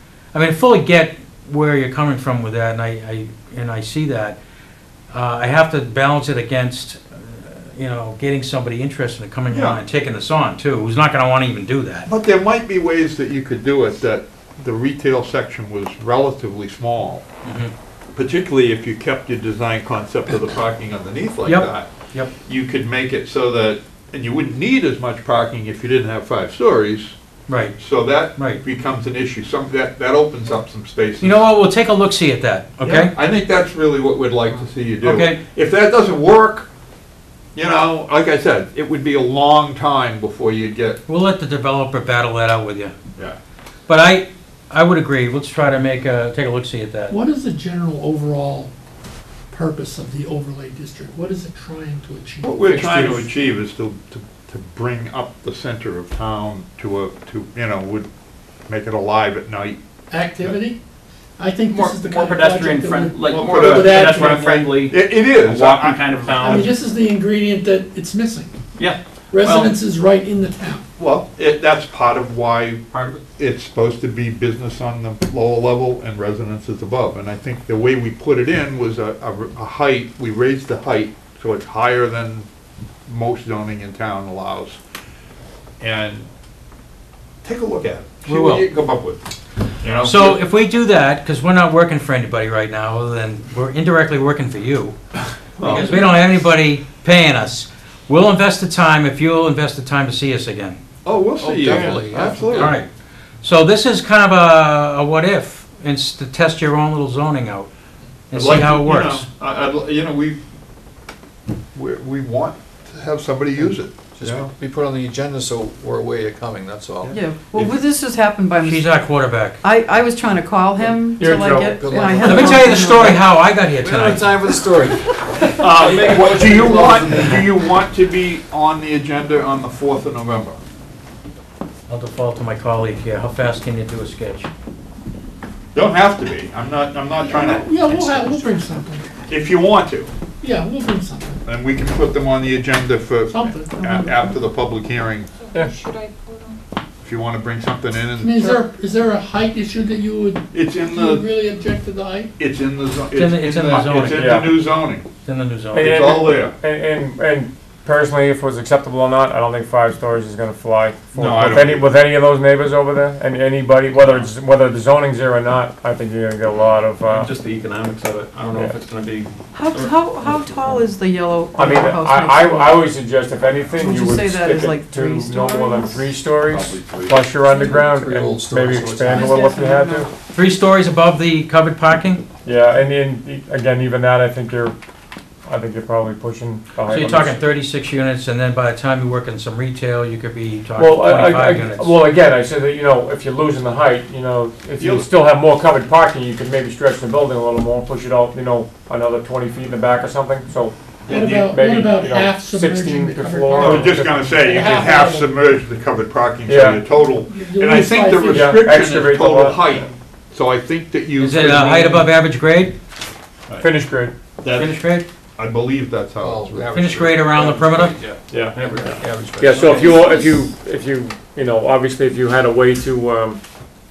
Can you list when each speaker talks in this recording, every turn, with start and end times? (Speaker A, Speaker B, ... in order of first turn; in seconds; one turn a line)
Speaker A: 0.3-4.4
Speaker A: 5.1-12.1
Speaker B: 9.5-9.8
Speaker B: 12.1-17.2
Speaker A: 17.4-17.7
Speaker B: 18.1-21.9
Speaker A: 21.4-22.3
Speaker B: 22.5-27.1
Speaker A: 27.5-27.8
Speaker B: 27.8-31.4
Speaker A: 28.4-28.6
Speaker A: 31.2-33.1
Speaker B: 32.8-36.7
Speaker A: 35.0-35.4
Speaker B: 37.5-41.0
Speaker A: 41.1-43.0
Speaker A: 43.9-47.2
Speaker C: 47.1-48.7
Speaker C: 49.5-52.8
Speaker B: 52.4-58.1
Speaker B: 58.7-59.8
Speaker C: 60.1-60.8
Speaker C: 61.4-64.7
Speaker D: 61.7-66.7
Speaker B: 63.2-66.7
Speaker C: 66.5-68.5
Speaker D: 68.8-69.8
Speaker C: 69.3-70.8
Speaker B: 71.0-72.8
Speaker D: 72.9-73.2
Speaker B: 73.4-82.5
Speaker B: 83.1-84.8
Speaker B: 85.8-86.3
Speaker B: 87.4-89.2
Speaker A: 88.3-88.7
Speaker B: 89.8-90.4
Speaker A: 90.0-95.0
Speaker B: 95.6-96.2
Speaker A: 95.6-100.8
Speaker B: 101.0-102.8
Speaker E: 101.4-102.8
Speaker A: 102.5-102.9
Speaker A: 103.4-107.7
Speaker A: 108.3-109.3
Speaker B: 108.3-110.4
Speaker B: 111.7-114.5
Speaker E: 113.6-117.2
Speaker B: 117.0-117.8
Speaker F: 117.1-119.0
Speaker A: 118.6-119.6
Speaker F: 119.6-123.2
Speaker G: 121.2-121.8
Speaker E: 121.7-123.2
Speaker A: 122.2-124.4
Speaker E: 123.8-127.6
Speaker B: 125.4-130.6
Speaker A: 131.9-134.5
Speaker B: 135.8-138.6
Speaker C: 137.2-139.1
Speaker B: 139.2-140.1
Speaker C: 140.4-141.4
Speaker B: 141.4-145.3
Speaker C: 143.3-143.7
Speaker F: 143.8-144.3
Speaker B: 147.0-148.6
Speaker C: 148.2-152.3
Speaker B: 150.5-151.3
Speaker B: 152.4-155.1
Speaker A: 153.1-154.6
Speaker G: 154.1-154.6
Speaker A: 155.2-156.1
Speaker B: 155.7-156.6
Speaker G: 155.7-167.3
Speaker B: 161.2-161.9
Speaker D: 167.1-170.0
Speaker G: 168.5-168.8
Speaker F: 169.5-172.9
Speaker G: 171.6-180.1
Speaker F: 173.7-176.0
Speaker E: 176.5-179.4
Speaker F: 177.5-177.8
Speaker F: 179.1-180.1
Speaker A: 180.3-182.2
Speaker G: 182.4-184.8
Speaker G: 185.5-187.4
Speaker A: 186.9-192.0
Speaker G: 190.8-204.7
Speaker B: 194.8-195.1
Speaker B: 201.1-201.5
Speaker C: 201.1-205.3
Speaker B: 203.6-212.1
Speaker G: 206.5-206.8
Speaker C: 207.1-208.8
Speaker G: 208.3-209.8
Speaker A: 211.2-212.8
Speaker G: 213.6-214.2
Speaker B: 214.4-214.8
Speaker A: 214.5-215.1
Speaker B: 215.4-216.8
Speaker E: 216.2-220.4
Speaker A: 216.7-218.0
Speaker G: 218.3-223.4